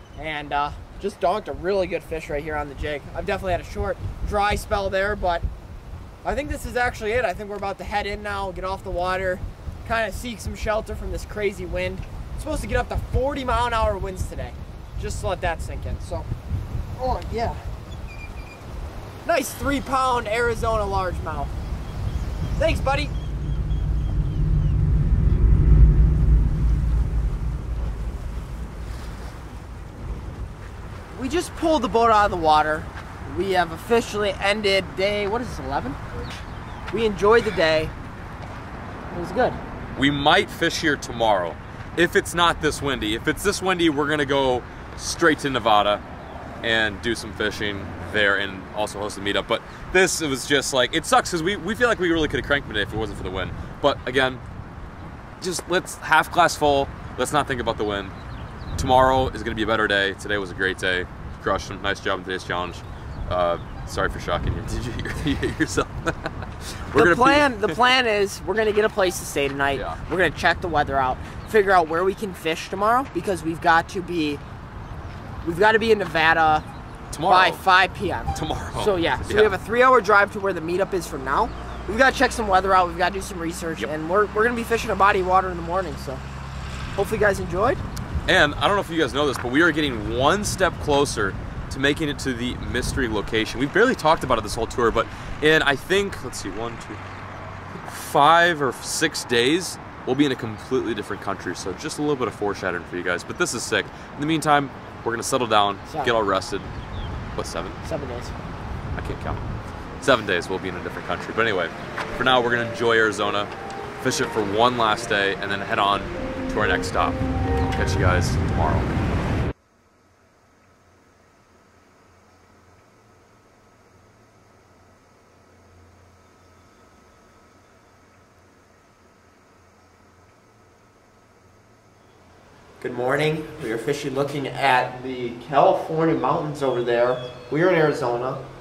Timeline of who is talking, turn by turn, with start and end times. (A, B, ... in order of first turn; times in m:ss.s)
0:00.2-0:05.4 A
0:06.2-0:16.3 A
0:17.0-0:17.6 A
0:19.2-0:21.5 A
0:22.6-0:23.1 A
0:31.1-0:36.0 A
0:36.9-0:37.9 A
0:39.1-0:39.6 A
0:40.0-0:46.0 B
0:46.6-0:54.4 B
0:55.4-0:58.2 B
0:58.8-1:07.8 B
1:07.0-1:14.4 A
1:09.7-1:10.0 B
1:15.4-1:16.7 A
1:17.1-1:17.6 B
1:17.3-1:26.2 A
1:18.3-1:19.6 B
1:27.0-1:27.8 A
1:28.3-1:37.0 B
1:37.8-1:46.7 B
1:45.9-1:46.2 A
1:47.4-1:47.8 B
1:47.8-1:48.4 A
1:49.0-1:49.4 B
1:50.0-1:58.9 B
2:12.8-2:18.4 A